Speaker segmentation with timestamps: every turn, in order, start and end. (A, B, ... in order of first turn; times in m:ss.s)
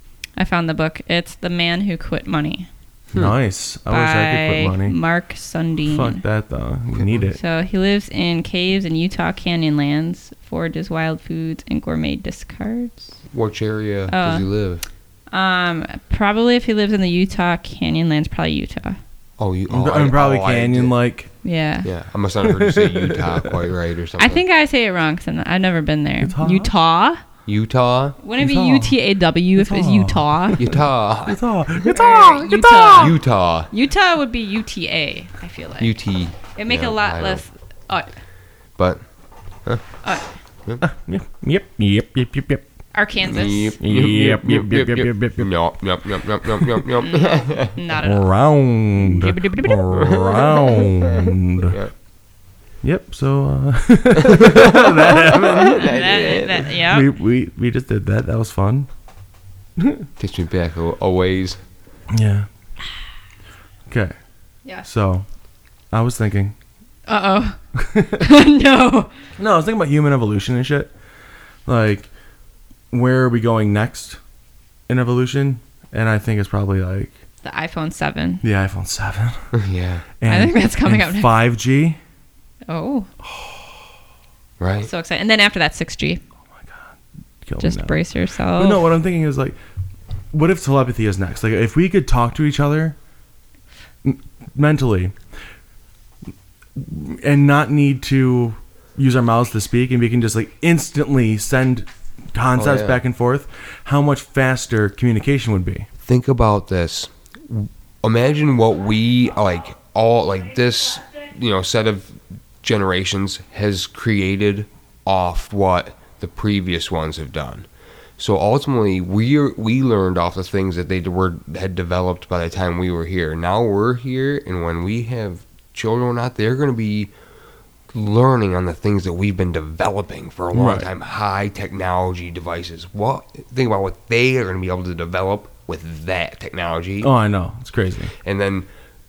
0:00.4-0:02.7 A
0:03.2-0:05.0 B
0:03.9-0:06.2 A
0:05.8-0:07.4 B
0:07.0-0:07.2 C
0:07.4-0:13.1 A
0:13.3-0:14.8 C
0:14.1-0:14.5 A
0:15.3-0:19.0 A
0:19.4-0:20.9 C
0:19.7-0:21.3 B
0:21.4-0:21.9 A
0:21.8-0:24.4 C
0:22.5-0:23.6 B
0:24.2-0:27.2 A
0:26.2-0:26.7 B
0:27.5-0:28.2 C
0:28.2-0:30.6 A
0:28.4-0:29.0 B
0:29.6-0:33.1 B
0:30.6-0:31.5 C
0:31.9-0:33.2 A
0:32.9-0:33.7 C
0:33.7-0:38.1 A
0:35.8-0:37.4 C
0:38.8-0:39.0 C
0:40.8-0:42.6 B
0:42.9-0:43.8 A
0:43.2-0:47.8 C
0:43.8-0:45.5 B
0:47.0-0:49.9 A
0:48.0-0:51.8 B
0:49.9-0:51.9 C
0:52.8-0:55.8 B
0:54.2-0:56.7 C
0:55.6-0:57.1 A
0:56.9-0:58.9 B
0:59.8-1:00.1 B
1:00.2-1:01.6 C
1:02.1-1:02.5 B
1:03.9-1:04.2 B
1:04.8-1:05.3 B
1:05.9-1:06.6 B
1:07.1-1:07.6 A
1:07.8-1:08.2 B
1:08.1-1:09.1 A
1:09.4-1:10.9 B
1:11.7-1:12.1 B
1:12.9-1:14.2 B
1:14.9-1:17.2 B
1:17.4-1:18.4 A
1:18.4-1:19.5 B
1:19.5-1:20.1 C
1:20.2-1:22.0 B
1:20.3-1:21.3 A
1:22.7-1:23.1 A
1:23.2-1:23.6 B
1:24.6-1:24.9 C
1:24.9-1:26.2 A
1:26.6-1:26.9 B
1:27.4-1:28.0 B
1:27.6-1:28.8 A
1:28.6-1:29.6 B
1:30.3-1:33.0 B
1:34.0-1:35.2 B
1:36.8-1:45.9 B
1:42.6-1:43.0 C
1:46.0-1:57.7 C
1:58.2-2:07.1 C
2:07.9-2:17.1 C
2:10.5-2:10.9 B
2:17.0-2:18.1 B
2:18.2-2:18.7 C